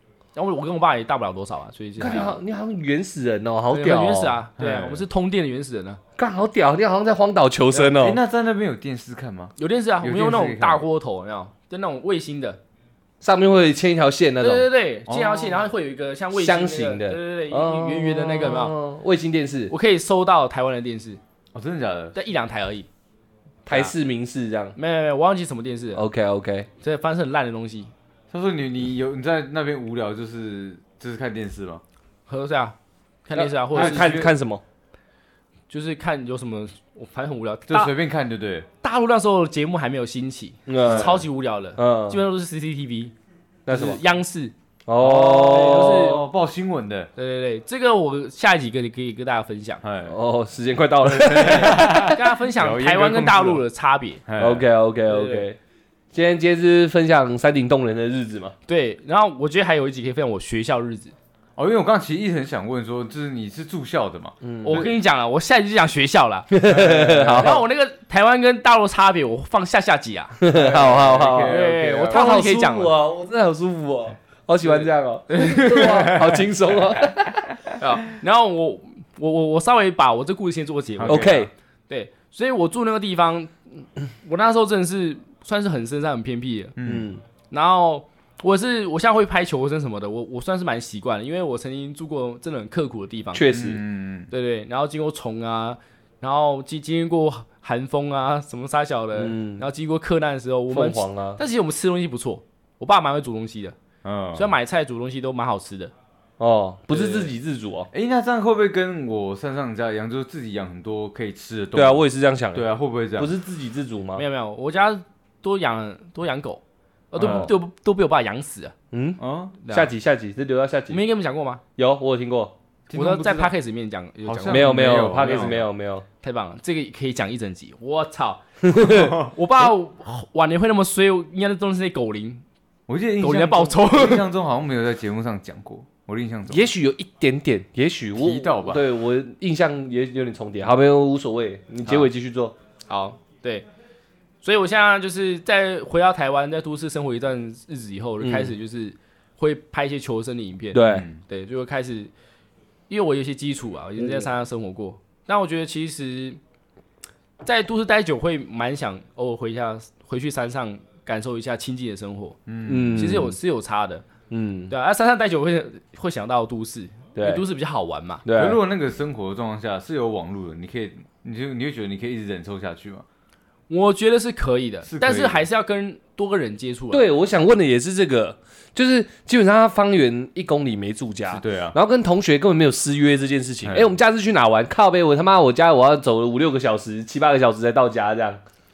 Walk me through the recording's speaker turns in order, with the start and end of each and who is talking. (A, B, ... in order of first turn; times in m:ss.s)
0:00.4-0:02.4 A
0:02.0-0:04.4 B
0:03.7-0:06.0 A
0:04.6-0:05.0 C
0:06.2-0:08.2 B
0:07.7-0:10.9 C
0:09.6-0:12.6 A
0:13.2-0:14.7 B
0:14.4-0:18.8 A
0:15.1-0:15.6 C
0:16.3-0:19.7 B
0:19.7-0:21.2 A
0:21.5-0:22.2 C
0:22.2-0:22.9 A
0:23.7-0:24.8 B
0:24.8-0:26.0 A
0:26.0-0:26.7 B
0:26.8-0:27.9 A
0:28.3-0:31.8 C
0:32.3-0:32.8 A
0:33.3-0:34.1 A
0:33.4-0:34.6 B
0:33.7-0:34.3 C
0:35.7-0:37.9 A
0:37.7-0:38.7 C
0:38.8-0:43.1 A
0:40.7-0:41.2 B
0:40.9-0:41.2 C
0:41.8-0:42.2 B
0:43.7-0:44.0 B
0:43.7-0:46.2 A
0:44.9-0:46.2 B
0:45.2-0:47.1 C
0:47.2-0:49.8 A
0:49.8-0:50.2 C
0:50.1-0:52.2 B
0:51.0-0:53.6 C
0:51.4-0:54.2 A
0:54.3-0:54.7 C
0:54.4-0:55.6 B
0:55.1-0:55.5 A
0:56.1-0:58.5 B
0:58.7-1:01.1 A
1:01.6-1:05.0 C
1:04.4-1:04.8 B
1:04.6-1:10.4 A
1:06.5-1:07.6 B
1:10.4-1:17.6 B
1:10.5-1:12.4 C
1:11.4-1:12.9 A
1:15.3-1:16.4 A
1:17.8-1:26.8 A
1:21.0-1:21.5 C
1:21.0-1:21.5 B
1:26.8-1:27.1 C
1:26.8-1:27.2 B
1:27.5-1:33.5 A
1:33.3-1:33.8 B
1:33.5-1:34.3 C
1:34.3-1:43.8 A
1:39.1-1:39.6 B
1:40.7-1:41.4 B
1:44.0-1:44.5 C
1:44.3-1:45.9 A
1:46.4-1:47.9 B
1:46.9-1:47.3 A
1:47.9-1:53.3 C
1:51.8-1:54.2 B
1:54.2-1:58.8 A
1:57.2-1:57.5 C
1:57.2-1:57.5 B
1:58.9-2:01.0 B
1:59.2-1:59.6 C
1:59.6-1:59.9 A
2:00.9-2:01.6 A
2:01.8-2:02.5 B
2:02.9-2:03.5 C
2:02.9-2:05.6 A
2:04.3-2:05.7 C
2:04.5-2:06.0 B
2:06.2-2:12.4 A
2:08.6-2:09.2 B
2:08.9-2:09.3 C
2:12.9-2:16.7 C
2:13.2-2:14.3 A
2:16.5-2:22.5 B
2:18.2-2:18.8 C
2:22.9-2:23.7 A
2:24.4-2:32.1 A
2:28.2-2:28.5 B
2:30.7-2:31.1 B
2:30.8-2:31.2 C
2:32.9-2:36.4 A
2:37.4-2:42.4 A
2:42.5-2:43.1 C
2:42.7-2:43.4 B
2:42.9-2:44.0 A
2:44.3-2:44.7 B
2:44.7-2:48.2 A
2:47.2-2:47.4 B
2:48.2-2:48.6 B
2:48.4-2:53.0 C
2:53.7-2:57.0 A
2:54.8-2:55.4 C
2:56.9-3:08.4 B
3:01.3-3:01.8 C
3:03.6-3:04.0 C